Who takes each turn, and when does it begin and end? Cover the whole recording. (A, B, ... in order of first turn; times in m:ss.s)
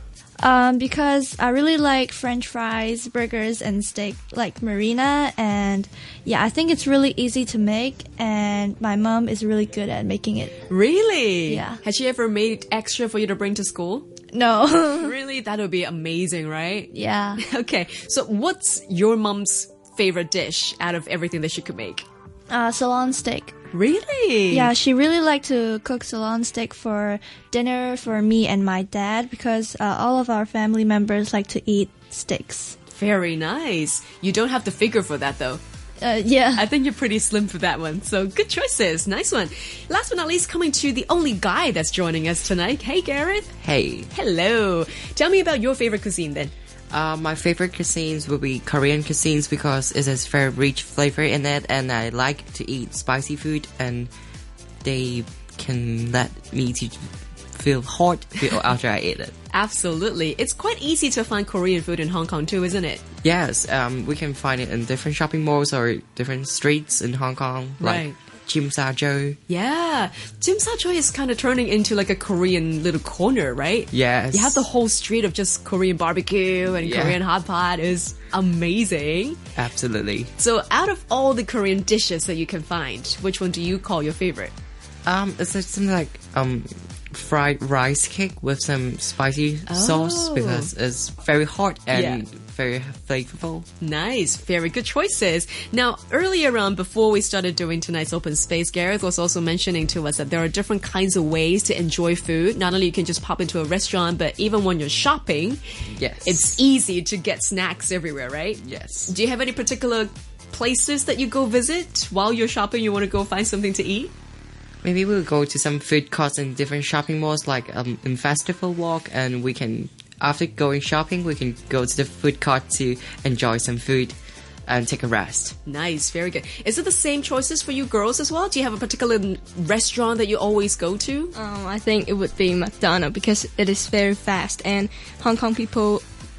0:00.4-0:10.6 A
0:10.7-0:14.1 B
0:11.5-0:11.8 A
0:14.3-0:15.2 A
0:15.0-0:22.0 B
0:16.9-0:17.4 A
0:22.5-0:23.6 A
0:23.7-0:24.7 B
0:24.5-0:32.8 A
0:32.9-0:35.6 B
0:36.0-0:36.7 A
0:36.5-0:43.5 B
0:43.6-0:44.1 C
0:44.1-0:46.5 B
0:46.9-0:54.1 C
0:54.8-0:59.3 C
0:59.5-1:03.0 B
1:03.2-1:09.4 C
1:07.8-1:08.2 B
1:09.5-1:19.4 B
1:13.9-1:14.6 C
1:16.8-1:17.2 C
1:19.6-1:20.3 C
1:20.4-1:24.5 B
1:25.0-1:33.7 C
1:29.7-1:30.7 B
1:31.9-1:32.2 B
1:33.8-1:45.6 B
1:45.9-1:46.6 C
1:46.2-1:54.1 B
1:48.6-1:49.1 C
1:54.8-2:05.6 C
2:05.6-2:11.3 B
2:11.3-2:16.0 D